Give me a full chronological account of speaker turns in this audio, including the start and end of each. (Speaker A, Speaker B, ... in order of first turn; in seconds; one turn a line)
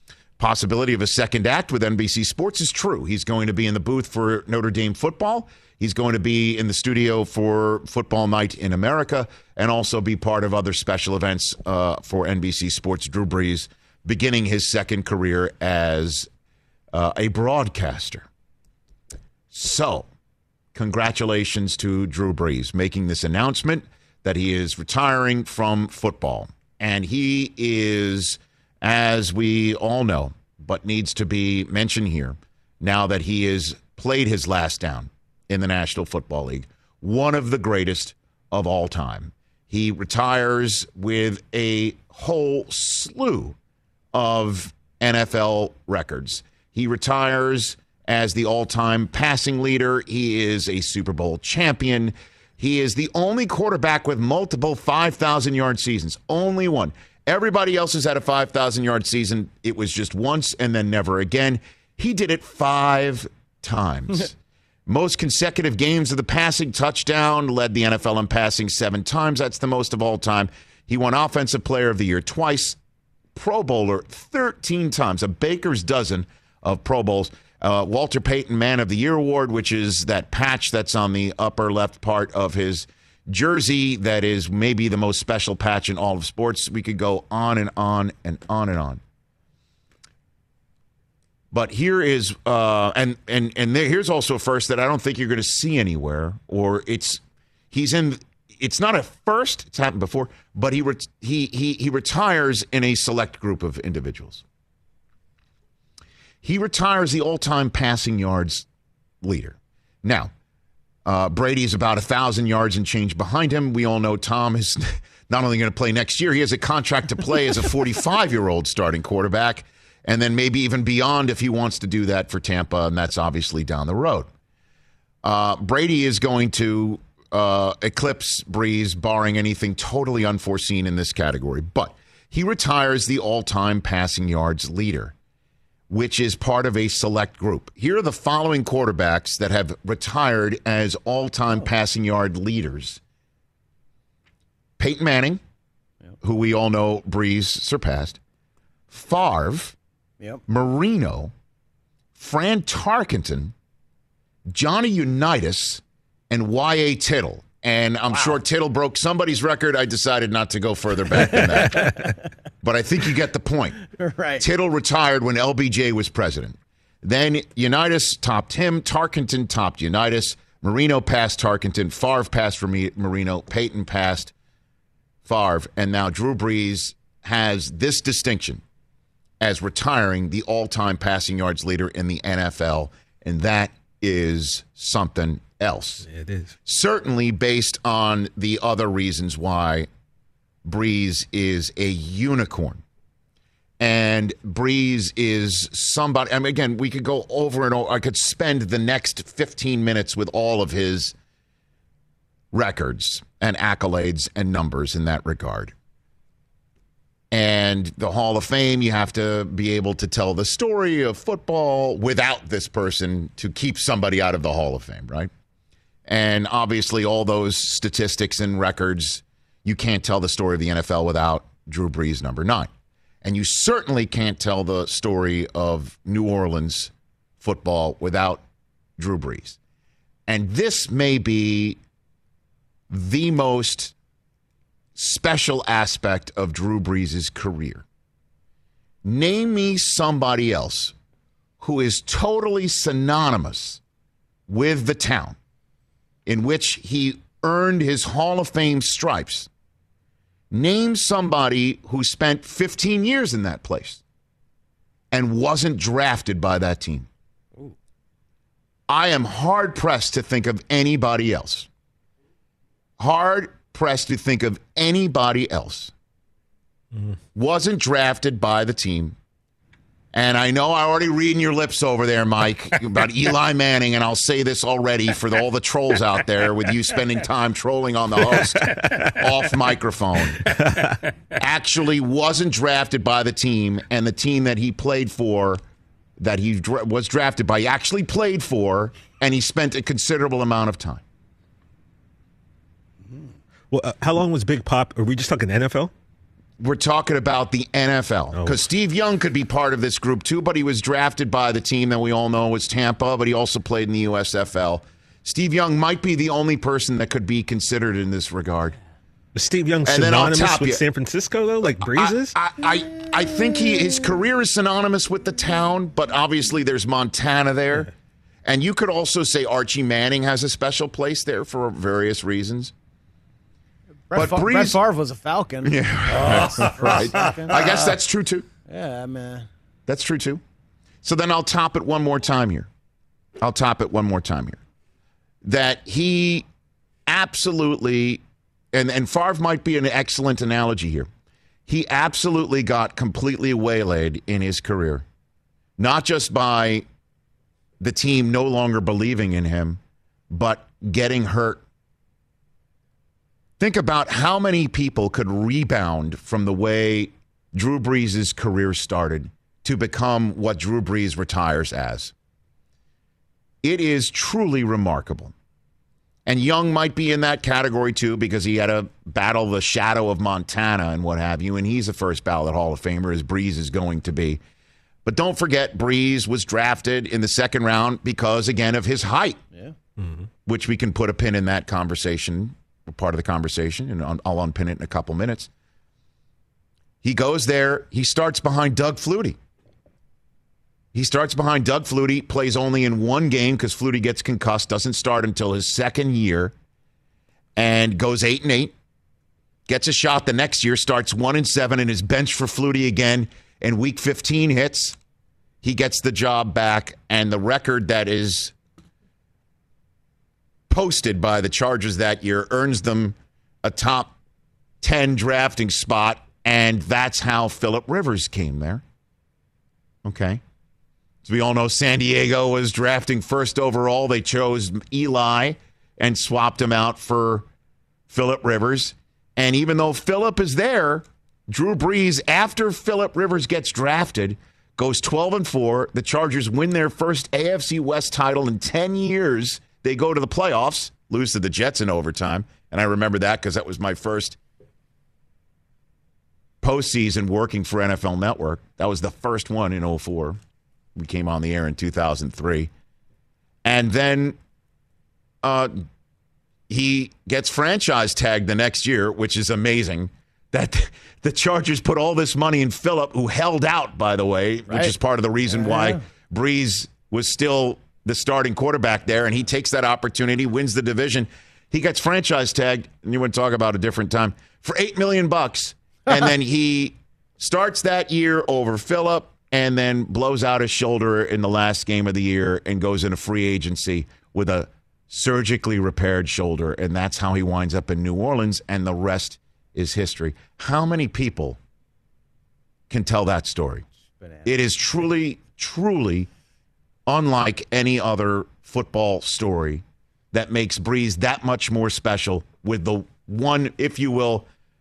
Speaker A: 0.4-16.3
Speaker A: 16.9-18.3
Speaker A: 19.5-20.1
Speaker A: 20.7-43.5
Speaker A: 44.1-64.3
Speaker A: 64.8-72.8
Speaker A: 73.3-89.0
Speaker A: 91.5-104.4
Speaker A: 106.4-108.7
Speaker A: 109.2-110.3
Speaker A: 111.0-124.3
Speaker A: 125.2-135.1
Speaker A: 135.9-143.0
Speaker A: 144.8-145.4
Speaker A: 146.2-148.2
Speaker A: 148.9-149.8
Speaker A: 150.5-151.3
Speaker A: 152.2-153.5
Speaker A: 154.5-161.9
Speaker B: 161.7-162.1
Speaker A: 162.6-163.8
Speaker B: 163.9-164.4
Speaker A: 164.4-174.3
Speaker A: 175.2-178.6
Speaker A: 179.4-186.1
Speaker C: 186.1-186.5
Speaker A: 186.7-189.9
Speaker A: 190.6-192.8
Speaker A: 193.8-201.1
Speaker A: 202.5-205.7
Speaker A: 207.3-215.3
Speaker A: 216.1-222.7
Speaker A: 223.2-228.4
Speaker A: 229.0-229.6
Speaker A: 230.3-231.8
Speaker A: 232.9-233.9
Speaker A: 234.9-237.8
Speaker A: 239.0-240.9
Speaker A: 241.6-243.8
Speaker A: 244.5-245.3
Speaker A: 246.2-249.5
Speaker A: 250.5-254.0
Speaker A: 255.1-257.1
Speaker A: 258.9-261.7
Speaker A: 263.0-265.9
Speaker A: 267.3-269.2
Speaker A: 270.1-280.5
Speaker C: 278.6-279.2
Speaker C: 280.4-281.0
Speaker A: 281.4-285.6
Speaker A: 286.2-291.0
Speaker C: 293.7-295.9
Speaker A: 296.6-308.8
Speaker C: 309.3-312.3
Speaker A: 309.8-310.8
Speaker A: 311.8-317.9
Speaker A: 318.4-322.7
Speaker B: 324.1-327.9
Speaker A: 324.1-324.8
Speaker A: 325.6-328.4
Speaker B: 328.7-329.5
Speaker A: 329.9-330.4
Speaker A: 331.0-332.7
Speaker A: 333.4-334.6
Speaker A: 335.4-336.4
Speaker A: 337.1-338.2
Speaker A: 338.7-341.1
Speaker A: 341.7-345.0
Speaker A: 345.8-346.8
Speaker A: 347.8-351.6
Speaker A: 353.6-362.1
Speaker A: 363.6-365.3
Speaker A: 366.2-374.4
Speaker A: 375.0-379.4
Speaker A: 380.4-385.5
Speaker A: 387.0-389.4
Speaker A: 390.9-396.5
Speaker A: 397.6-398.7
Speaker A: 399.7-404.9
Speaker A: 405.6-408.5
Speaker A: 410.7-414.1
Speaker A: 414.8-418.8
Speaker A: 420.0-420.4
Speaker A: 421.2-427.5
Speaker A: 428.1-444.4
Speaker A: 446.6-450.4
Speaker A: 450.9-452.7
Speaker A: 453.6-454.4
Speaker A: 455.4-455.9
Speaker A: 456.7-491.6
Speaker B: 464.7-464.9
Speaker B: 465.6-466.0
Speaker A: 492.9-493.8
Speaker B: 494.2-494.5
Speaker A: 494.4-496.3
Speaker A: 497.1-504.5